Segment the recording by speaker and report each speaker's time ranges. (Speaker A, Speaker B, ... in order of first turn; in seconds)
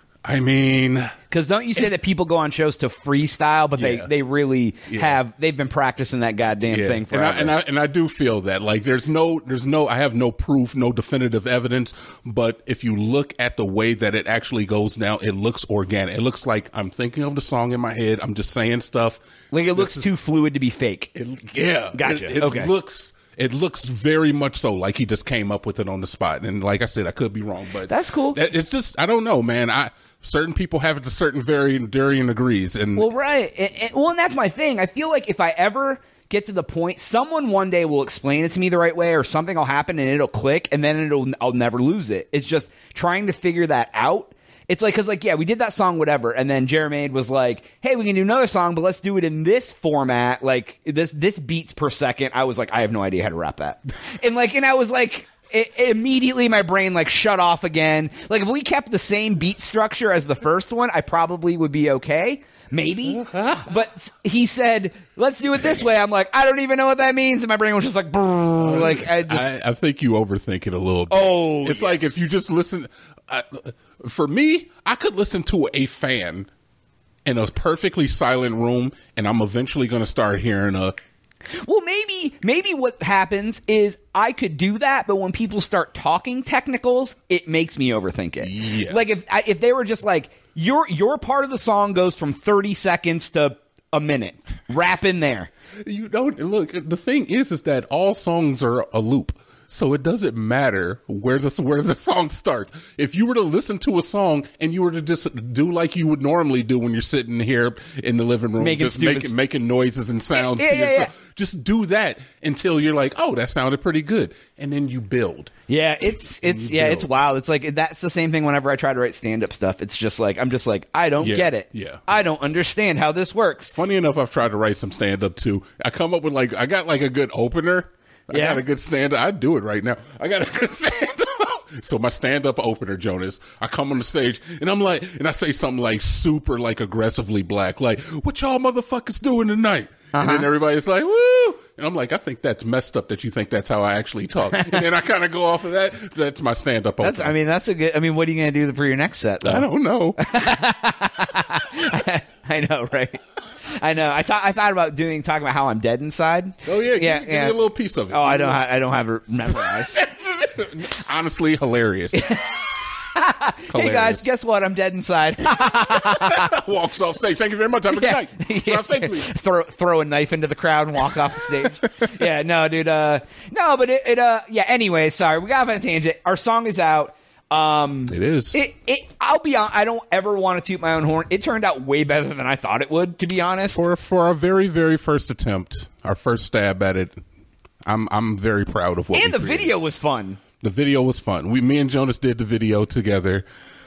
Speaker A: 0.2-1.1, 3.8-4.1, 4.9-5.2, 6.6-19.2, 19.8-20.1, 21.2-33.1, 63.1-63.6, 68.6-76.5, 77.2-80.9, 88.4-89.0, 95.8-115.5, 116.4-117.1, 121.2-122.0, 123.8-147.3, 149.4-150.4, 156.6-158.6, 159.5-162.4, 163.7-164.2, 165.7-169.3, 178.1-178.6, 183.7-187.2, 187.8-189.8, 190.6-193.5
Speaker B: 1.3-7.5, 19.5-21.1, 21.9-22.7, 27.9-28.4, 33.0-69.5, 71.1-72.2, 81.6-95.5, 108.6-109.3, 110.3-111.1, 115.7-123.8, 128.3-128.6, 140.1-140.5, 144.6-144.8, 147.0-157.6, 158.1-160.0, 162.1-162.6, 163.1-166.5, 167.9-183.8, 189.1-190.4